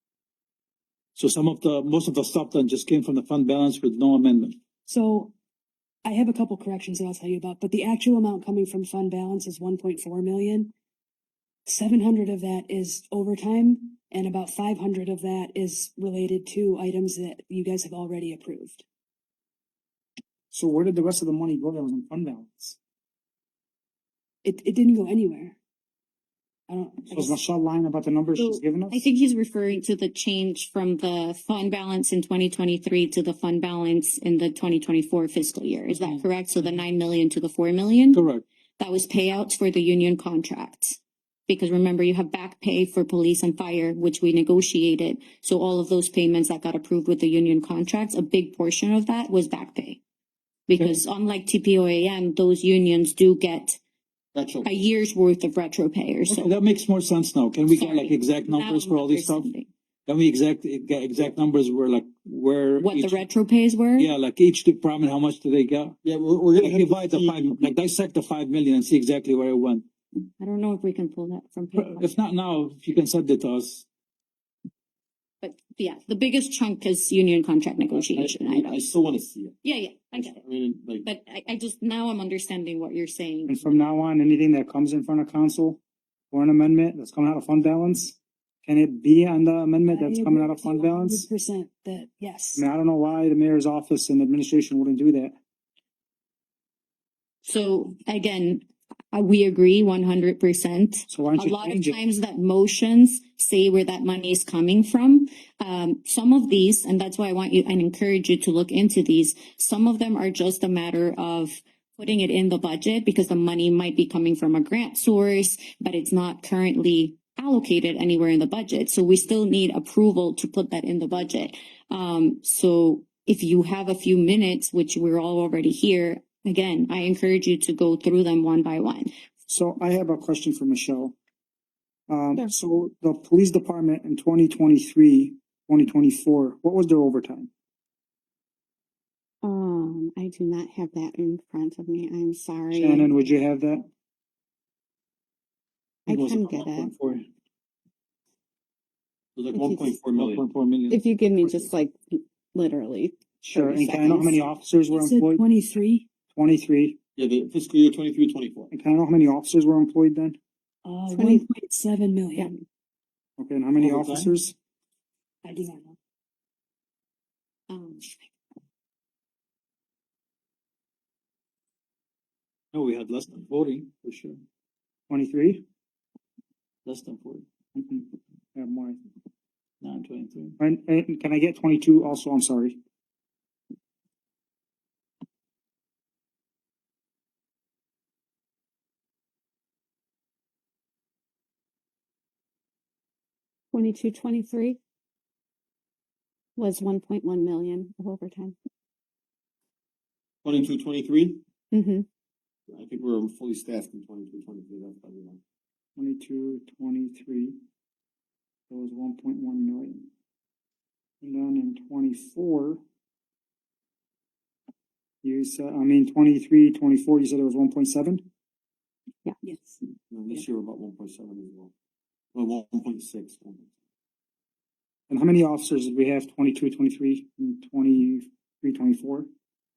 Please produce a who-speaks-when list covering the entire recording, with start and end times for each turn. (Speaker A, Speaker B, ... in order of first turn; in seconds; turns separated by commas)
Speaker A: 1.2-4.6, Speaker B: 4.9-5.3, Speaker B: 6.0-10.7, Speaker B: 11.7-18.9, Speaker C: 20.5-22.8, Speaker B: 24.4-25.6, Speaker B: 26.7-27.4, Speaker C: 27.1-29.1, Speaker D: 28.4-38.2, Speaker A: 35.9-36.8, Speaker A: 38.1-38.4, Speaker D: 38.8-50.0, Speaker D: 50.7-53.8, Speaker E: 54.3-54.7, Speaker D: 54.6-56.5, Speaker A: 56.3-59.5, Speaker D: 57.7-59.7, Speaker A: 60.1-63.2, Speaker D: 62.8-64.1, Speaker A: 64.0-66.0, Speaker E: 66.0-67.7, Speaker A: 66.6-69.8, Speaker D: 70.4-72.1, Speaker A: 71.8-73.9, Speaker D: 75.4-78.8, Speaker E: 77.9-79.6, Speaker D: 79.6-80.4, Speaker E: 80.1-81.1, Speaker D: 81.0-83.6, Speaker C: 83.5-85.8, Speaker C: 86.3-91.3, Speaker B: 89.9-92.6, Speaker C: 92.5-95.4, Speaker D: 97.4-129.1, Speaker C: 101.1-102.0, Speaker C: 129.5-131.2, Speaker C: 132.1-137.5, Speaker F: 139.4-143.3, Speaker C: 142.7-143.9, Speaker E: 146.1-146.9, Speaker F: 146.1-146.9, Speaker A: 147.0-147.2, Speaker E: 149.3-150.5, Speaker F: 149.5-150.0, Speaker A: 150.1-151.0, Speaker F: 150.9-154.4, Speaker E: 151.4-151.7, Speaker C: 153.5-155.4, Speaker B: 154.9-156.1, Speaker C: 156.3-157.0, Speaker E: 157.2-158.7, Speaker C: 158.7-160.4, Speaker B: 160.8-162.5, Speaker F: 161.1-161.5, Speaker F: 162.4-162.6, Speaker C: 163.4-164.6, Speaker A: 163.8-164.3, Speaker B: 165.4-166.0, Speaker D: 167.7-168.3, Speaker A: 172.7-174.4, Speaker C: 175.1-175.7, Speaker A: 176.8-177.4, Speaker C: 177.8-179.0, Speaker A: 179.8-180.6, Speaker C: 180.6-182.8, Speaker F: 193.7-194.8, Speaker F: 196.6-198.6, Speaker E: 200.4-201.4, Speaker F: 201.7-202.1, Speaker E: 202.7-205.4, Speaker C: 206.0-207.6, Speaker C: 208.7-210.1, Speaker C: 211.2-212.8, Speaker C: 215.2-218.2, Speaker B: 219.4-219.8, Speaker E: 220.1-221.7, Speaker E: 222.3-223.7, Speaker C: 225.1-229.3